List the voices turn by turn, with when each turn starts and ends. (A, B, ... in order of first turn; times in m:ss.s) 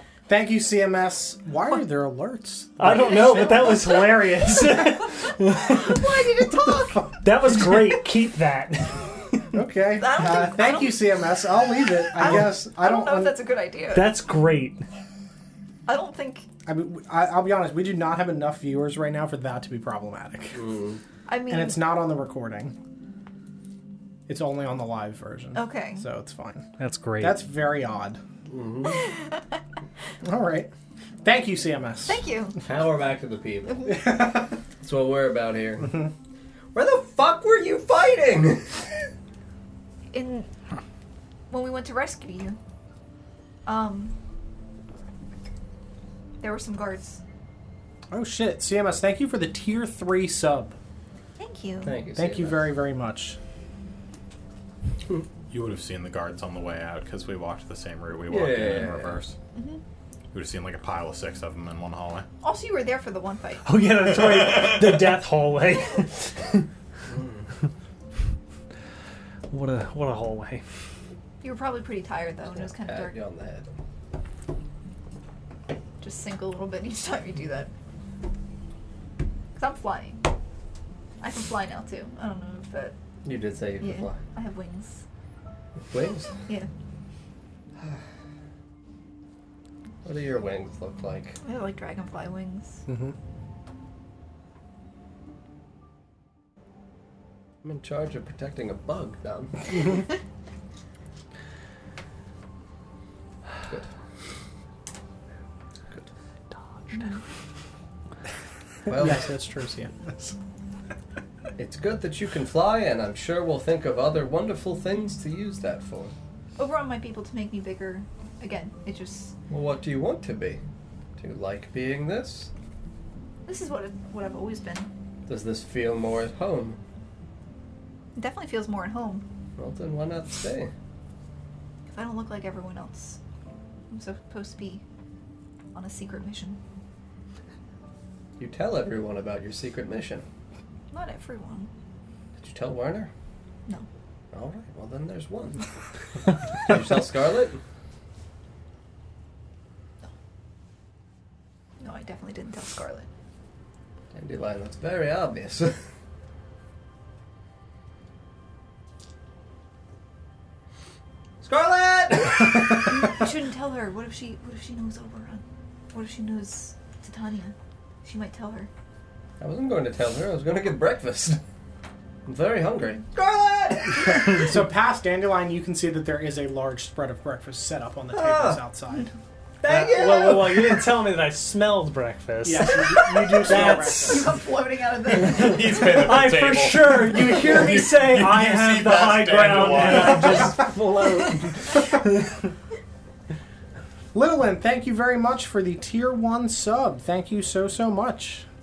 0:00.3-0:03.7 A
0:02.8-0:06.0 B
0:05.6-0:07.2 C
0:07.1-0:09.4 B
0:09.5-0:13.4 A
0:10.0-0:11.0 C
0:12.2-0:14.1 C
0:13.9-0:14.8 B
0:15.9-0:16.5 C
0:16.7-0:20.6 A
0:20.6-0:21.0 D
0:21.3-0:21.8 C
0:21.5-0:22.8 A
0:24.3-0:26.7 A
0:25.6-0:26.0 C
0:26.8-0:27.4 B
0:27.2-0:28.2 A
0:28.5-0:29.1 D
0:29.1-0:29.4 C
0:30.2-0:30.7 A
0:31.2-0:32.2 A
0:32.1-0:32.6 C
0:32.6-0:36.1 D
0:36.7-0:38.9 D
0:40.1-0:40.5 C
0:41.5-0:42.6 C
0:43.7-0:44.1 C
0:46.4-0:47.2 C
0:48.1-0:50.8 A
0:51.4-0:52.0 C
0:51.8-0:52.7 D
0:52.2-0:53.4 A
0:55.5-0:59.4 E
0:58.3-0:59.2 D
0:59.5-0:59.8 C
1:00.3-1:02.3 E
1:02.4-1:03.7 C
1:03.6-1:06.6 B
1:07.1-1:07.4 D
1:09.5-1:10.6 B
1:11.4-1:13.2 C
1:12.5-1:13.7 D
1:16.0-1:17.7 C
1:19.6-1:20.2 C
1:21.2-1:23.0 C
1:23.2-1:24.2 D
1:23.8-1:25.0 C
1:25.9-1:26.4 D
1:30.0-1:31.4 D
1:31.4-1:32.8 C
1:32.9-1:33.2 A
1:37.6-1:40.0 D
1:46.9-1:47.2 C
1:48.9-1:49.3 D
1:48.9-1:50.4 A
1:51.6-1:56.1 D
1:56.6-1:59.4 C
1:59.5-2:00.6 D
2:01.2-2:02.5 D
2:03.5-2:04.9 C
2:05.3-2:06.8 D
2:08.2-2:09.2 C
2:09.6-2:10.7 D
2:11.9-2:13.2 C
2:13.9-2:14.8 C
2:15.7-2:16.6 C
2:18.4-2:20.2 D
2:20.9-2:21.7 C
2:22.4-2:23.1 D
2:24.3-2:25.6 D
2:26.6-2:27.6 D
2:31.8-2:33.1 C
2:34.1-2:35.8 D
2:41.4-2:43.0 D
2:42.8-2:48.7 C
2:49.4-2:51.4 D
2:52.3-2:54.4 D
2:54.1-2:59.1 A
2:58.1-2:58.6 D
2:59.6-3:04.4 B
2:59.6-3:00.8 D
3:02.4-3:04.4 A
3:03.6-3:05.8 C
3:05.1-3:10.6 E
3:05.6-3:12.3 B
3:09.6-3:10.3 A
3:14.1-3:18.5 A